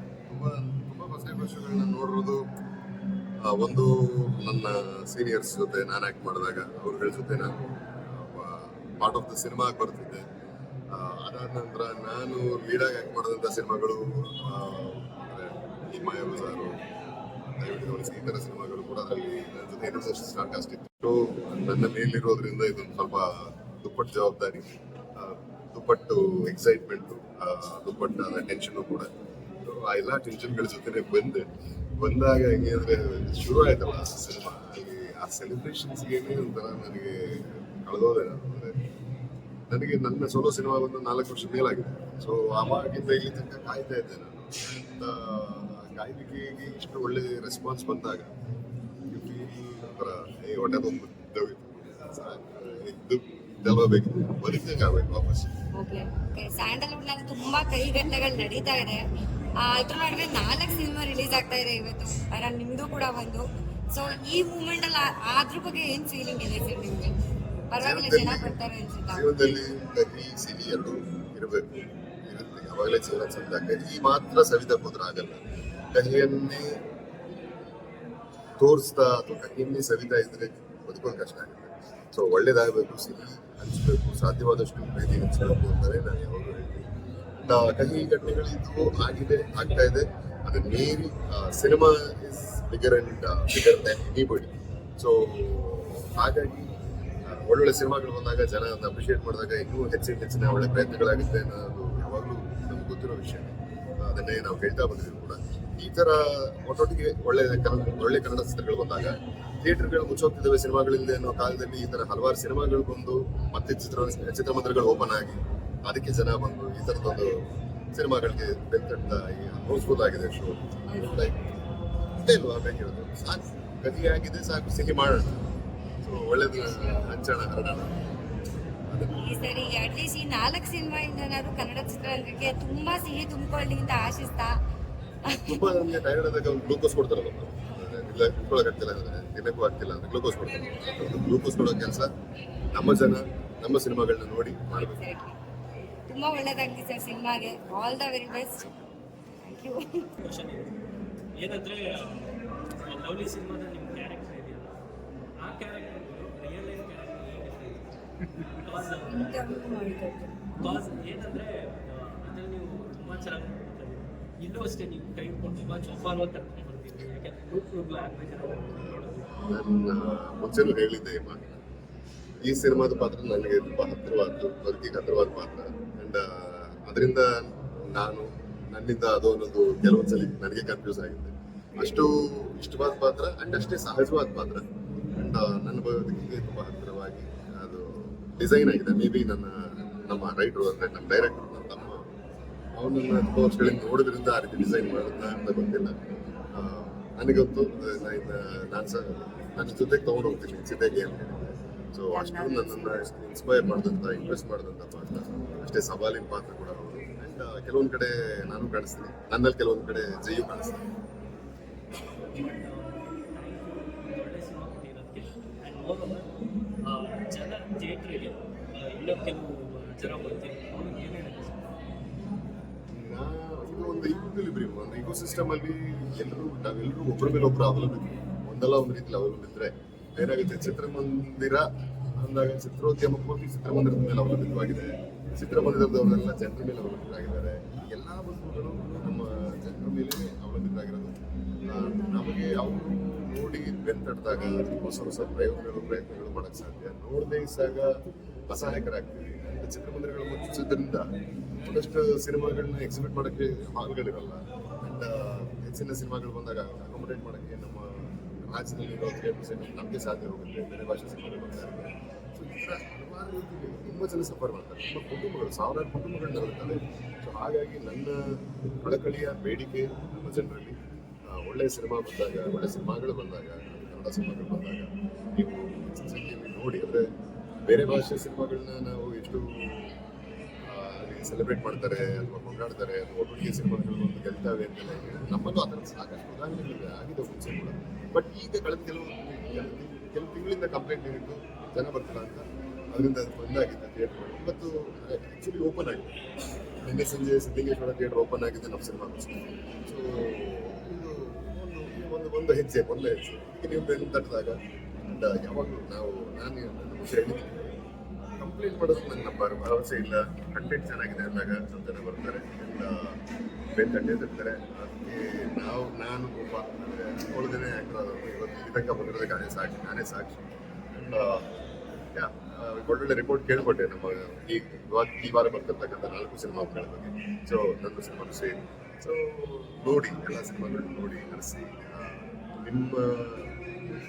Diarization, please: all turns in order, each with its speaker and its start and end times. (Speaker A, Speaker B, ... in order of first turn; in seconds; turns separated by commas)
Speaker A: 0.3-2.4, Speaker A: 3.5-7.5, Speaker A: 8.1-10.2, Speaker A: 10.9-16.7, Speaker A: 17.6-29.1, Speaker A: 29.6-31.5, Speaker A: 32.0-38.7, Speaker A: 39.7-48.3, Speaker A: 49.1-55.5, Speaker B: 55.8-59.0, Speaker B: 59.6-67.2, Speaker B: 67.7-69.3, Speaker A: 67.8-68.5, Speaker A: 69.1-71.6, Speaker A: 72.3-75.4, Speaker A: 75.9-76.7, Speaker A: 78.6-86.8, Speaker A: 87.4-96.7, Speaker A: 97.2-117.3, Speaker A: 117.9-121.4, Speaker B: 120.9-121.2, Speaker A: 122.2-125.4, Speaker A: 126.0-127.9, Speaker B: 126.6-127.1, Speaker A: 128.9-129.3, Speaker B: 129.2-134.5, Speaker B: 135.3-135.5, Speaker A: 135.5-142.1, Speaker A: 142.7-145.1, Speaker B: 144.8-145.3, Speaker B: 146.1-148.7, Speaker B: 149.4-150.1, Speaker C: 150.2-150.7, Speaker C: 151.4-154.8, Speaker C: 155.4-157.9, Speaker C: 158.4-159.6, Speaker B: 159.1-160.7, Speaker C: 160.6-169.5, Speaker A: 168.8-171.6, Speaker A: 172.4-184.6, Speaker A: 185.2-192.0, Speaker A: 192.8-196.0, Speaker A: 196.6-210.8, Speaker C: 212.3-216.3, Speaker C: 216.8-221.8, Speaker A: 222.9-231.7, Speaker A: 232.2-241.2, Speaker A: 241.7-247.9, Speaker A: 248.5-251.1, Speaker A: 251.6-268.2, Speaker A: 268.8-270.8, Speaker A: 271.3-277.1, Speaker A: 277.7-279.9, Speaker A: 280.7-296.1, Speaker A: 296.8-307.8, Speaker A: 308.4-313.2, Speaker A: 313.8-321.4, Speaker A: 322.1-333.5